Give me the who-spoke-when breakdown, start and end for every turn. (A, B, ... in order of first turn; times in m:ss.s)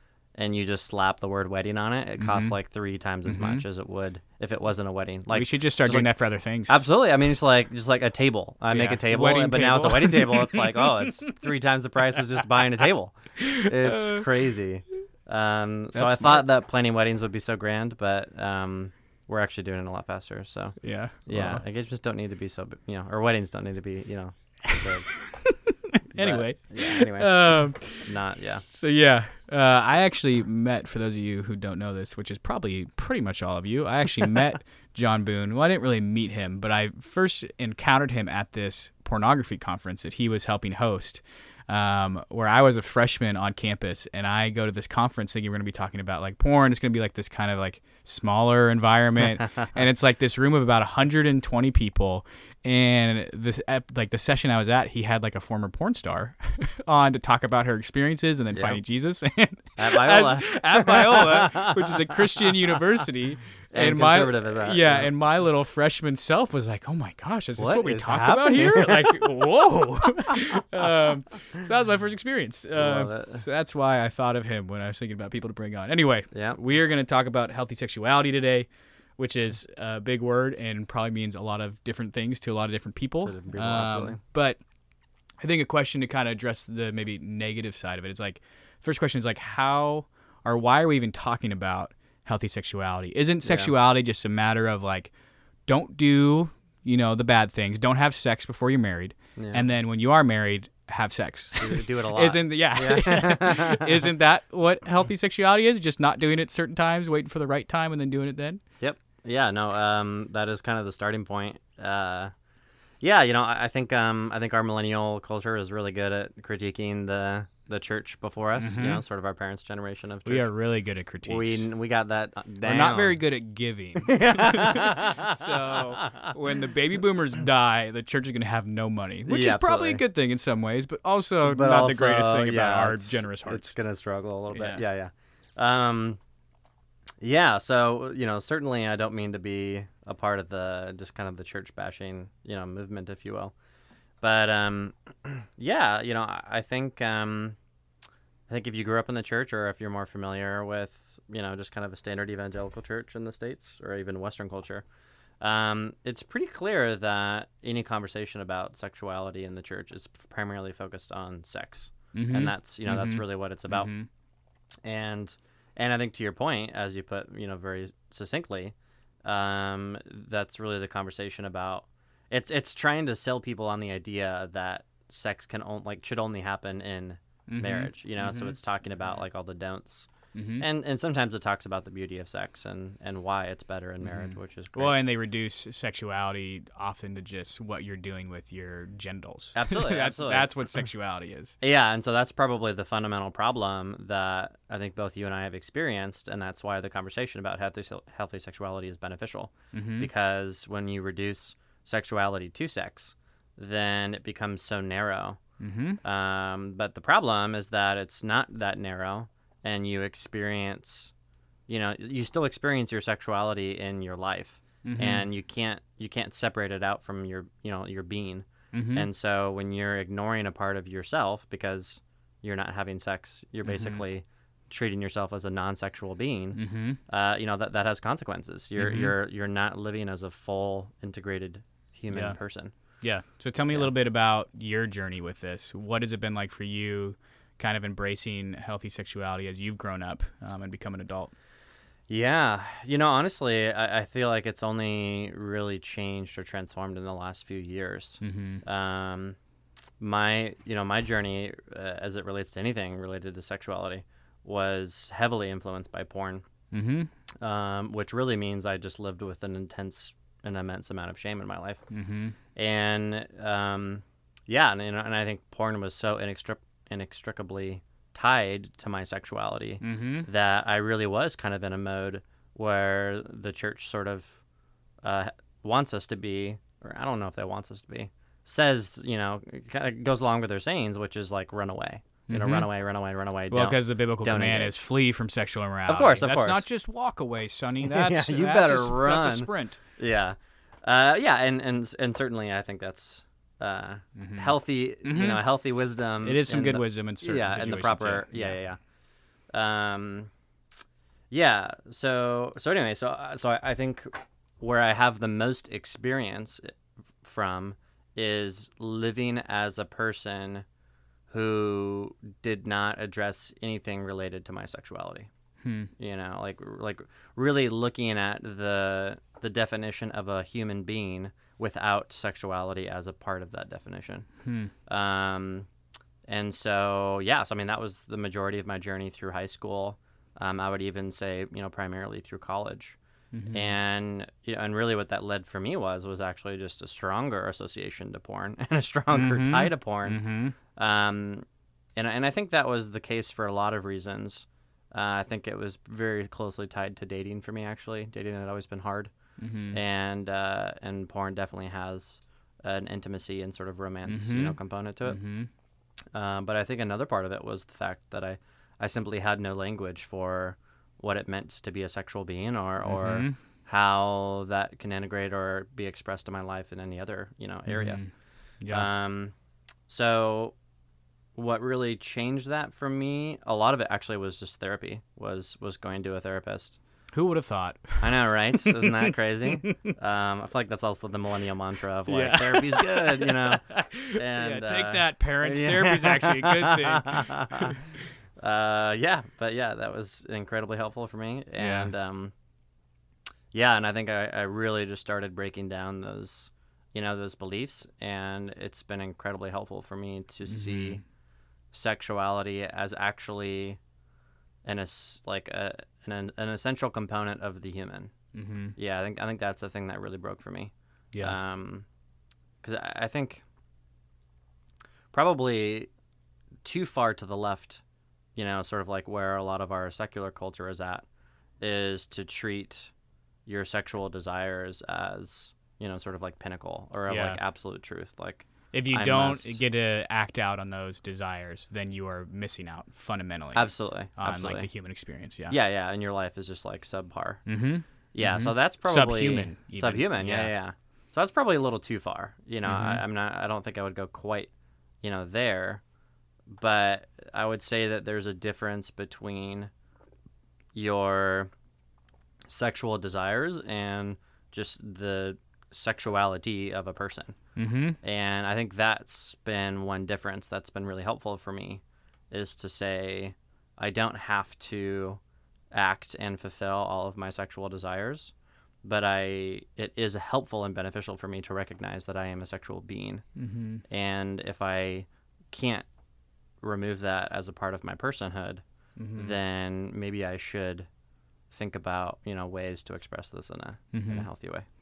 0:00.4-0:25.4 A
0:02.2-0:02.6 B
0:03.2-0:03.6 B
0:05.3-0:06.8 B
0:08.7-0:11.0 B
0:13.4-0:14.3 B
0:15.9-0:16.5 B
0:20.8-0:21.6 B
0:25.4-1:24.6 B
0:26.1-0:28.6 A
0:58.5-0:58.8 A
0:59.8-1:02.5 A
1:03.7-1:05.1 A
1:07.6-1:09.4 A
1:12.8-1:13.4 A
1:16.3-1:16.6 A
1:23.2-1:24.2 A
1:25.4-1:35.1 B
1:33.4-1:33.7 A
1:35.7-1:48.6 B
1:39.4-1:39.6 A
1:41.6-1:44.1 A
1:48.8-1:52.3 A
1:53.0-2:00.5 A
1:58.6-1:59.0 B
2:00.3-2:01.7 B
2:01.2-2:03.2 A
2:02.6-2:13.7 B
2:04.0-2:06.3 A
2:09.3-2:10.0 A
2:11.4-2:16.2 A
2:14.5-2:14.8 B
2:17.2-2:23.5 A
2:24.2-2:27.6 A
2:28.5-2:34.8 A
2:35.4-2:44.0 A
2:42.1-2:44.1 B
2:44.8-3:05.0 A
2:57.5-2:58.6 B
3:00.3-3:00.7 B
3:04.0-3:11.6 B
3:09.6-3:10.5 A
3:11.6-3:25.4 A
3:19.7-3:20.1 B
3:25.6-3:26.0 B
3:26.0-3:31.1 A
3:31.7-3:52.7 A
3:34.8-3:35.2 B
3:38.7-3:39.1 B
3:43.6-3:44.0 B
3:46.6-3:47.0 B
3:48.8-3:49.1 B
3:52.1-3:52.4 B
3:53.0-4:01.3 B
4:02.1-4:09.4 A
4:08.2-4:08.6 B
4:10.0-4:16.5 A
4:16.7-4:17.1 B
4:17.4-4:21.9 A
4:21.9-4:22.4 B
4:22.6-4:34.4 A
4:29.8-4:30.3 B
4:35.0-4:44.8 A
4:42.3-4:42.7 B
4:43.5-4:49.8 B
4:45.9-4:46.7 A
4:47.8-4:58.8 A
4:54.2-4:55.4 B
4:56.2-4:58.6 B
4:59.5-5:00.3 A
5:01.3-5:10.6 A
5:11.3-5:15.3 A
5:15.6-5:15.9 B
5:16.0-5:24.3 A
5:24.4-5:24.7 B
5:24.9-5:25.7 A
5:26.3-5:33.0 A
5:33.3-5:33.7 B
5:33.5-5:41.4 A
5:39.1-5:40.6 B
5:42.0-5:49.1 A
5:49.4-5:49.8 B
5:49.7-5:55.2 A
5:54.1-5:55.5 B
5:56.1-6:08.2 A
6:02.8-6:03.4 B
6:07.7-6:08.9 B
6:08.7-6:09.3 A
6:09.9-6:10.6 A
6:11.4-6:16.8 A
6:17.1-6:20.0 B
6:18.0-6:27.8 A
6:22.1-6:27.7 B
6:28.4-6:32.3 A
6:31.6-6:31.9 B
6:33.5-6:41.0 A
6:40.5-6:41.0 B
6:41.7-6:43.8 A
6:44.6-6:48.2 A
6:48.3-6:48.8 B
6:48.8-6:51.9 A
6:52.6-6:53.4 A
6:55.1-6:55.9 A
6:56.6-6:57.8 A
6:58.4-7:01.1 A
7:01.6-7:02.9 A
7:03.5-7:09.6 A
7:07.1-7:07.4 B
7:08.7-7:15.6 B
7:13.5-7:14.7 A
7:15.5-7:17.4 A
7:17.5-7:20.5 B
7:18.1-7:24.5 A
7:22.6-7:23.0 B
7:25.0-7:25.8 A
7:26.5-7:29.7 A
7:30.8-7:31.5 A
7:32.5-7:37.4 A
7:37.6-7:38.0 B
7:38.0-7:45.2 A
7:45.7-7:53.3 A
7:53.4-7:53.8 B
7:53.9-7:55.9 A
7:56.6-7:58.6 A
7:59.0-7:59.4 B
7:59.2-8:00.9 A
8:01.5-8:04.7 A
8:03.9-8:04.3 B